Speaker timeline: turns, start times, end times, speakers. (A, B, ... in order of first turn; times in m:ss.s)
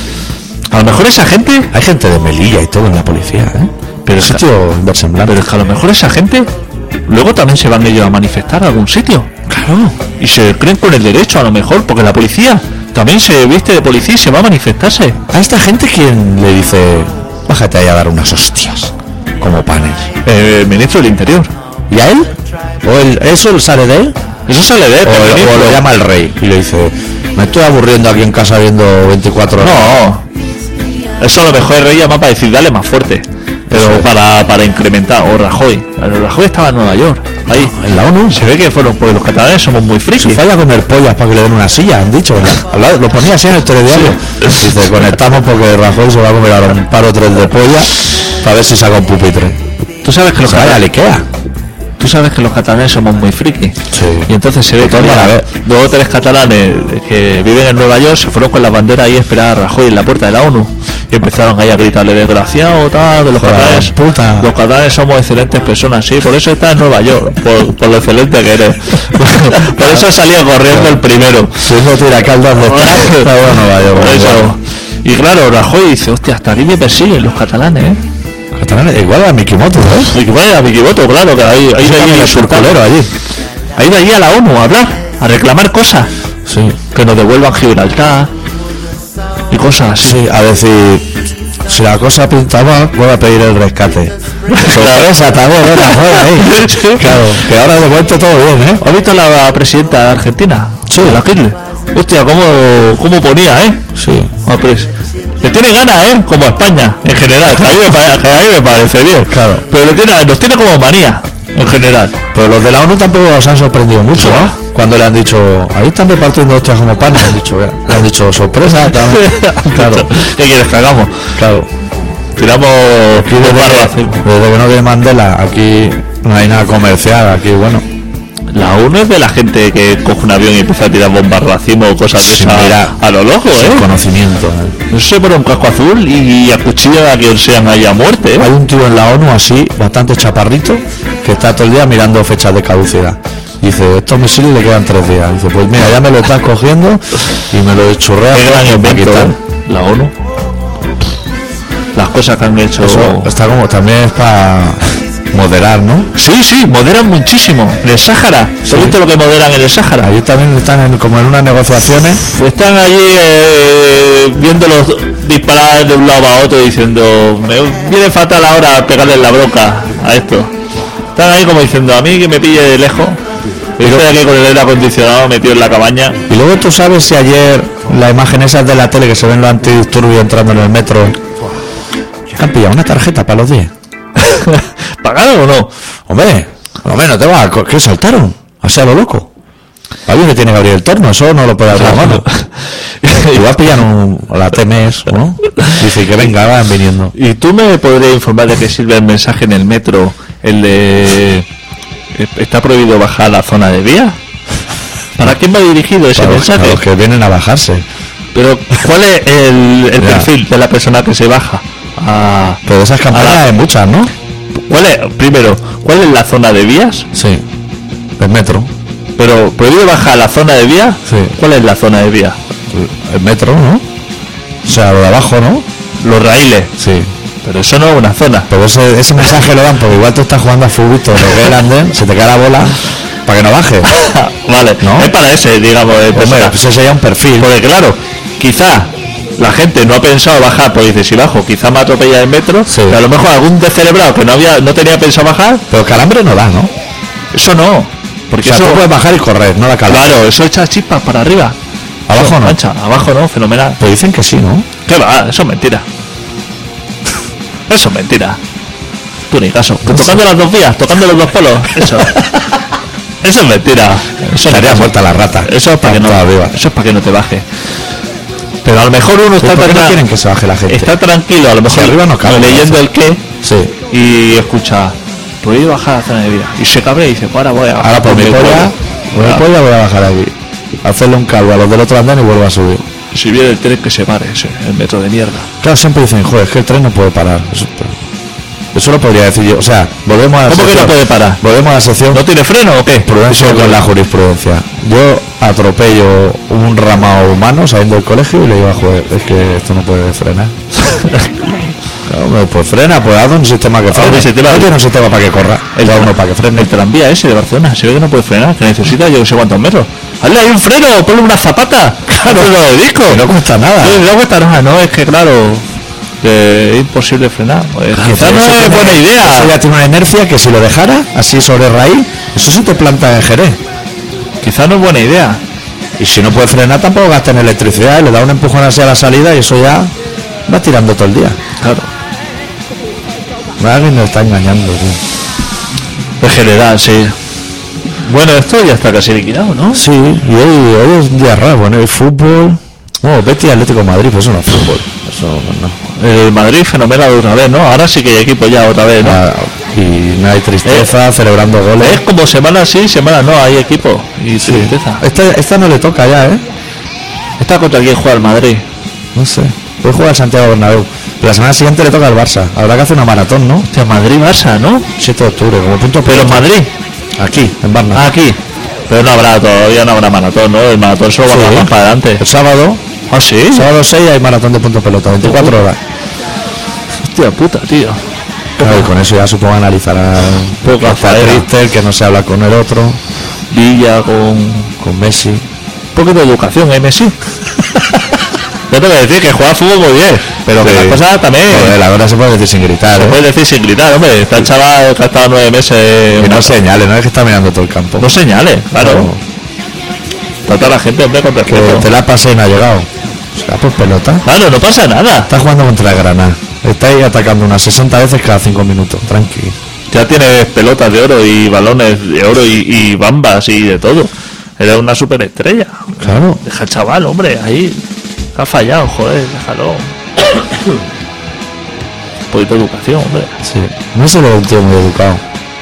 0:00.7-0:01.7 A
0:01.7-0:05.4 B
0:04.0-0:04.4 A
0:05.2-0:06.5 A
0:07.1-0:09.3 A
0:09.5-0:10.0 B
0:10.2-0:15.2 A
0:15.3-0:20.1 B
0:20.2-0:21.5 A
0:21.9-0:22.3 B
0:22.8-0:24.2 B
0:24.5-0:25.8 A
0:25.0-0:29.9 B
0:29.6-0:30.2 A
0:31.2-0:37.7 A
0:33.7-0:34.1 B
0:37.5-0:38.4 B
0:38.3-0:40.4 A
0:40.2-0:49.6 B
0:44.1-0:44.6 A
0:50.0-0:50.8 A
0:50.4-0:51.3 B
0:52.0-1:11.7 A
0:53.9-0:55.4 B
1:03.4-1:04.5 B
1:09.8-1:10.0 B
1:11.6-1:14.5 B
1:12.6-1:13.3 A
1:13.9-1:18.0 A
1:18.5-1:20.1 B
1:20.1-1:22.8 A
1:21.8-1:23.1 B
1:23.8-1:26.1 A
1:26.4-1:26.8 B
1:26.9-1:28.3 A
1:29.5-1:30.2 A
1:30.0-1:31.1 B
1:31.7-1:38.8 B
1:34.5-1:35.1 A
1:35.8-1:37.2 A
1:38.8-1:43.8 A
1:40.9-1:41.2 B
1:43.9-1:44.3 B
1:44.4-1:52.2 A
1:49.3-1:49.6 B
1:52.3-2:00.1 B
1:54.2-1:54.5 A
1:59.0-2:01.3 A
2:01.4-2:01.7 B
2:02.3-2:04.2 A
2:03.2-2:07.8 B
2:08.5-2:13.9 A
2:12.2-2:13.0 B
2:13.5-2:14.8 B
2:14.9-2:18.5 A
2:18.4-2:29.4 B
2:28.3-2:30.1 A
2:31.9-2:33.3 A
2:32.8-2:36.1 B
2:36.1-2:40.1 A
2:38.6-2:39.0 B
2:40.0-2:42.2 B
2:42.2-2:50.5 A
2:51.1-2:53.2 A
2:53.8-2:56.2 A
2:56.3-3:01.2 B
3:02.3-3:03.7 B
3:04.2-3:05.7 A
3:06.1-3:09.3 B
3:10.1-3:12.2 B
3:11.7-3:13.5 A
3:13.2-3:17.1 B
3:17.1-3:21.4 A
3:22.1-3:24.2 A
3:25.2-3:26.8 A
3:26.1-3:27.8 B
3:28.3-3:33.4 A
3:30.0-3:30.3 B
3:32.6-3:34.1 B
3:34.7-3:37.1 A
3:37.1-3:37.4 B
3:38.2-3:38.7 B
3:39.2-3:42.4 A
3:41.1-3:41.3 B
3:42.7-3:43.8 B
3:44.6-3:45.6 B
3:46.0-3:46.7 A
3:46.8-3:47.1 B
3:47.4-3:48.5 A
3:48.5-3:53.9 B
3:53.9-3:56.6 A
3:54.8-3:55.1 B
3:56.1-3:57.5 B
3:57.4-4:05.6 A
4:02.7-4:03.0 B
4:05.7-4:06.7 B
4:07.3-4:08.9 A
4:08.4-4:10.2 B
4:09.9-4:11.6 A
4:12.1-4:12.6 B
4:12.1-4:13.8 A
4:13.8-4:14.7 B
4:14.8-4:15.8 A
4:17.7-4:18.4 A
4:19.3-4:22.5 A
4:19.9-4:20.2 B
4:23.2-4:27.4 A
4:24.4-4:26.6 B
4:28.6-4:30.0 A
4:29.4-4:30.9 B
4:30.7-4:33.2 A
4:31.6-4:32.8 B
4:33.4-4:33.7 B
4:33.9-4:39.4 A
4:37.8-4:42.8 B
4:43.1-4:45.5 A
4:45.6-4:48.0 B
4:48.7-4:52.2 B
4:50.5-4:51.4 A
4:52.1-4:53.8 A
4:53.0-5:00.5 B
5:00.8-5:01.7 A
5:02.0-5:06.7 B
5:03.9-5:04.7 A
5:05.8-5:13.2 A
5:12.1-5:14.0 B
5:13.8-5:15.7 A
5:16.2-5:19.5 A
5:17.9-5:23.6 B
5:24.4-5:25.4 A
5:26.0-5:29.9 B
5:30.4-5:31.4 B
5:31.6-5:31.9 A
5:33.6-5:35.0 B
5:36.2-5:37.1 A
5:38.0-5:39.8 A
5:39.7-5:45.8 B
5:45.9-5:49.2 A
5:49.0-5:52.0 B
5:50.6-5:50.9 A
5:51.8-5:55.0 A
5:54.4-5:56.4 B
5:57.4-5:58.6 A
5:59.1-6:03.7 B
6:03.7-6:04.9 A
6:05.0-6:06.5 B
6:06.1-6:06.7 A
6:07.2-6:08.1 B
6:07.9-6:12.2 A
6:11.3-6:12.8 B
6:13.1-6:13.7 A
6:13.5-6:15.8 B
6:15.2-6:15.6 A
6:17.0-6:18.0 A
6:18.6-6:23.0 B
6:18.6-6:18.9 A
6:20.6-6:21.5 A
6:23.5-6:24.7 A
6:24.8-6:25.4 B
6:25.9-6:27.1 A
6:28.7-6:31.8 A
6:30.4-6:33.2 B
6:32.9-6:36.5 A
6:36.1-6:38.1 B
6:38.0-6:39.1 A
6:38.8-6:39.2 B
6:40.5-6:41.9 A
6:41.5-6:44.2 B
6:44.2-6:45.3 A
6:45.3-6:49.6 B
6:49.9-6:57.8 A
6:56.0-6:56.4 B
6:58.3-6:59.9 A
7:02.3-7:03.4 A
7:03.4-7:05.2 B